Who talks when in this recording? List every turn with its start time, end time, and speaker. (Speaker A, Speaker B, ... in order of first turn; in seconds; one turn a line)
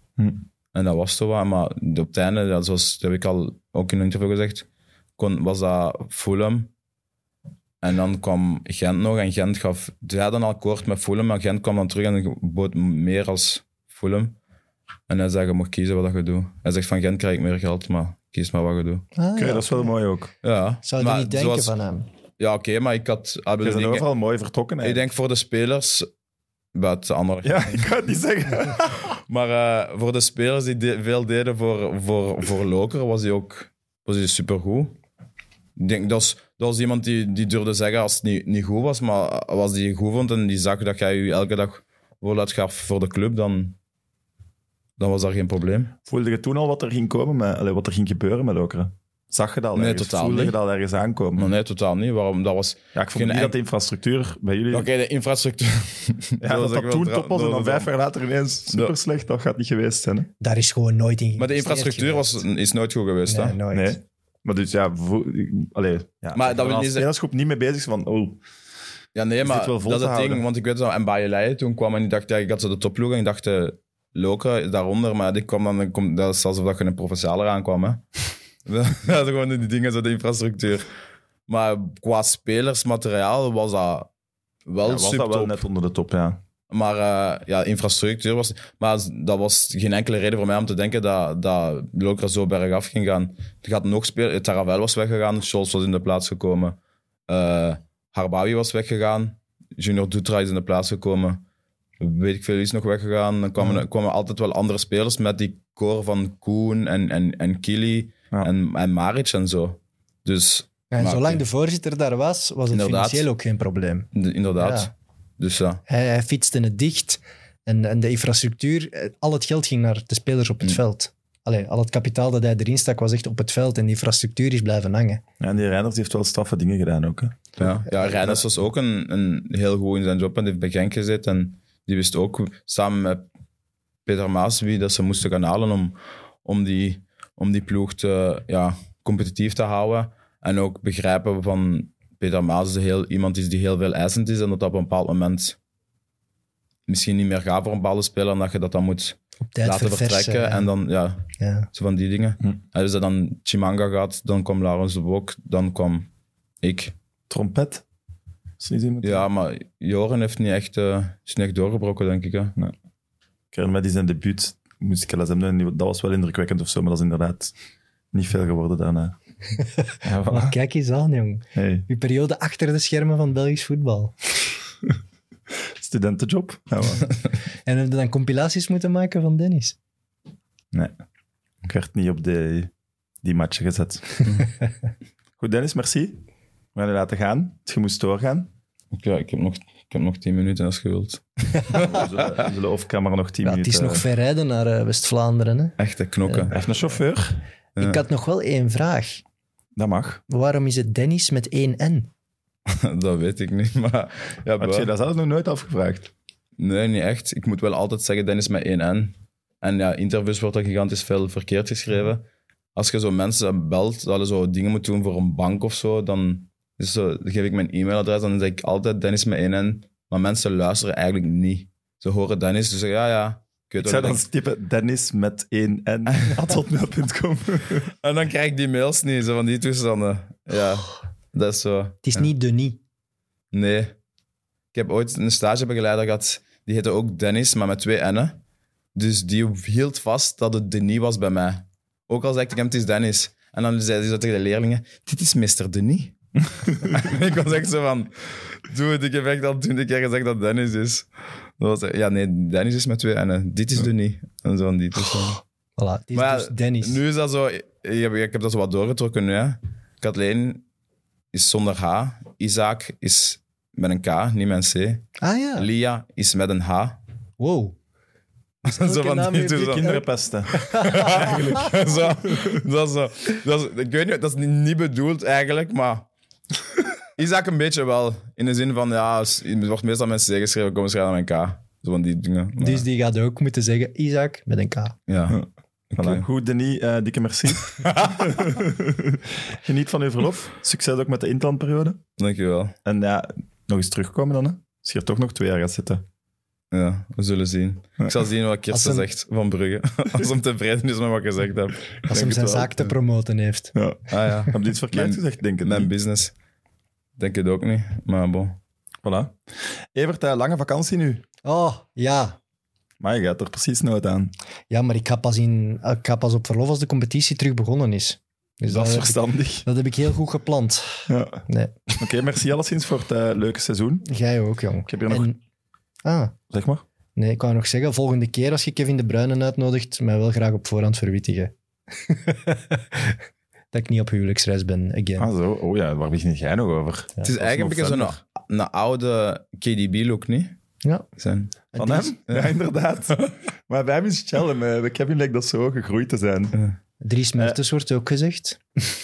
Speaker A: 0.2-0.4
Speaker B: 0.7-4.7
Speaker B: 5.2-6.7
Speaker B: 7.8-14.3
Speaker B: 15.1-19.1
Speaker C: 19.1-19.9
Speaker A: 19.4-20.3
Speaker B: 20.4-21.7
Speaker C: 20.8-22.1
Speaker B: 22.4-24.1
Speaker A: 23.6-25.1
Speaker B: 24.8-26.1
Speaker B: 26.7-27.9
Speaker A: 27.4-29.1
Speaker B: 29.1-34.9
Speaker B: 35.8-43.8
Speaker B: 45.0-45.9
Speaker A: 46.1-51.5
Speaker B: 49.7-50.6
Speaker B: 51.4-53.6
Speaker A: 53.0-54.9
Speaker B: 54.7-57.9
Speaker A: 56.4-60.3
Speaker B: 58.7-59.0
Speaker C: 60.4-62.4
Speaker B: 61.4-63.6
Speaker C: 63.3-64.0
Speaker A: 63.7-68.4
Speaker B: 66.3-67.1
Speaker B: 69.2-78.0
Speaker A: 69.4-70.5
Speaker B: 78.7-80.9
Speaker B: 81.5-84.1
Speaker B: 84.7-85.6
Speaker A: 84.8-86.4
Speaker B: 86.7-96.8
Speaker B: 97.3-101.4
Speaker B: 102.0-111.4
Speaker C: 103.6-103.8
Speaker C: 110.9-114.9
Speaker B: 112.7-113.3
Speaker B: 114.1-115.8
Speaker C: 115.9-125.2
Speaker A: 125.4-128.4
Speaker B: 127.6-133.2
Speaker B: 134.1-145.6
Speaker B: 146.9-156.1
Speaker C: 149.5-150.7
Speaker C: 151.4-151.7
Speaker B: 156.6-156.9
Speaker A: 157.3-157.8
Speaker A: 158.6-159.3
Speaker B: 159.0-162.5
Speaker A: 163.5-167.5
Speaker A: 168.1-169.1
Speaker C: 169.6-174.2
Speaker A: 170.0-170.5
Speaker A: 171.6-171.9
Speaker A: 175.8-177.1
Speaker C: 177.7-179.8
Speaker A: 181.6-182.7
Speaker A: 183.2-184.3
Speaker A: 185.4-186.2
Speaker A: 186.7-188.5
Speaker B: 188.9-192.4
Speaker A: 191.7-194.0
Speaker C: 193.4-196.6
Speaker B: 195.8-196.6
Speaker A: 196.5-197.4
Speaker B: 197.8-198.0
Speaker C: 197.8-199.2
Speaker A: 199.8-200.2
Speaker C: 200.3-202.1
Speaker B: 202.7-204.9
Speaker A: 204.6-206.1
Speaker B: 206.6-212.2
Speaker B: 212.7-224.2
Speaker A: 223.8-227.9
Speaker B: 228.0-232.3
Speaker C: 232.0-232.8
Speaker B: 233.5-233.9
Speaker B: 234.7-238.4
Speaker B: 238.9-246.2
Speaker B: 246.8-251.1
Speaker B: 251.6-255.4
Speaker C: 255.8-257.0
Speaker B: 256.1-260.6
Speaker B: 261.3-267.0
Speaker C: 265.2-265.7
Speaker C: 267.4-267.8
Speaker B: 268.6-270.0
Speaker C: 268.6-271.6
Speaker A: 269.6-271.7
Speaker B: 270.6-276.1
Speaker A: 272.3-272.6
Speaker B: 277.2-282.9
Speaker C: 282.6-284.9
Speaker B: 285.1-285.4
Speaker B: 285.9-286.3
Speaker A: 286.0-292.0
Speaker B: 287.7-288.3
Speaker B: 292.2-292.7
Speaker A: 292.9-296.0
Speaker B: 296.7-302.9
Speaker C: 298.7-299.1
Speaker C: 302.1-303.7
Speaker A: 303.7-305.9
Speaker B: 304.1-306.3
Speaker B: 307.2-308.6
Speaker A: 309.0-311.2
Speaker C: 311.4-312.4
Speaker A: 313.0-314.3
Speaker C: 314.7-321.7
Speaker A: 318.6-319.7
Speaker A: 321.1-321.4
Speaker A: 321.9-324.1
Speaker C: 324.1-325.4
Speaker A: 324.9-325.3
Speaker C: 326.0-326.4
Speaker A: 326.5-326.8
Speaker C: 327.1-333.2
Speaker C: 333.7-335.3
Speaker A: 335.2-338.2
Speaker B: 337.2-340.6
Speaker B: 341.2-341.6
Speaker C: 341.7-342.1
Speaker A: 341.8-346.6
Speaker B: 342.3-342.6
Speaker C: 347.0-348.6